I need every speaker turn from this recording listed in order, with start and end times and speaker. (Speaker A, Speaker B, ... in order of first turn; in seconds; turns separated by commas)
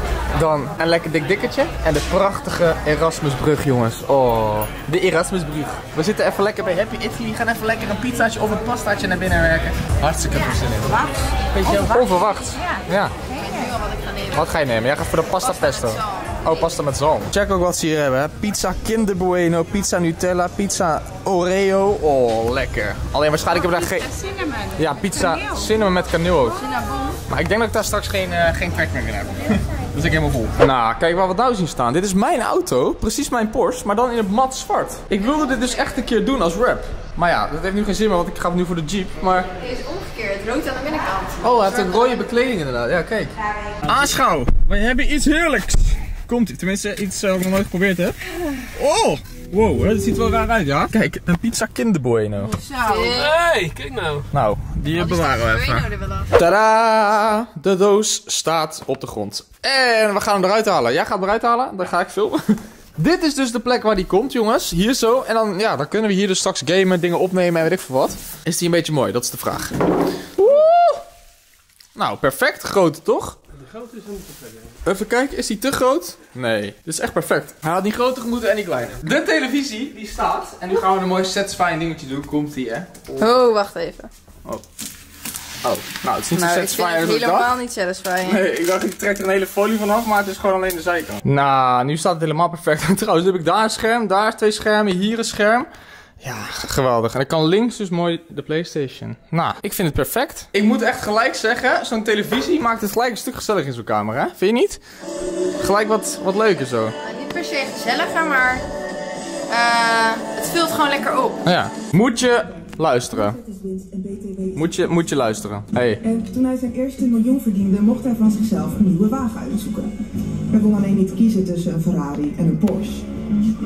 Speaker A: 0.3-13.1, Speaker B: 10.3-13.8, Speaker C: 13.4-14.6, Speaker A: 14.3-24.1, Speaker C: 15.4-16.6, Speaker B: 23.5-25.7, Speaker A: 24.8-26.6, Speaker C: 26.4-27.2, Speaker A: 27.3-39.5, Speaker C: 39.6-42.0, Speaker A: 41.4-43.3, Speaker B: 43.4-43.8, Speaker A: 43.8-48.2, Speaker A: 48.7-52.6, Speaker B: 52.4-53.2, Speaker C: 52.7-53.3, Speaker D: 53.0-54.3, Speaker A: 54.3-69.8, Speaker C: 54.9-56.3, Speaker A: 70.4-71.0, Speaker A: 72.0-73.4, Speaker D: 73.5-74.8, Speaker A: 74.8-83.4, Speaker C: 83.2-84.1, Speaker A: 85.6-87.5, Speaker C: 86.3-88.5, Speaker A: 88.2-95.7, Speaker A: 96.2-104.8, Speaker A: 105.6-106.9, Speaker C: 107.0-108.6, Speaker C: 109.5-111.5, Speaker A: 111.5-113.4, Speaker E: 113.1-114.6, Speaker A: 114.5-116.0, Speaker E: 116.0-119.9, Speaker E: 120.5-123.1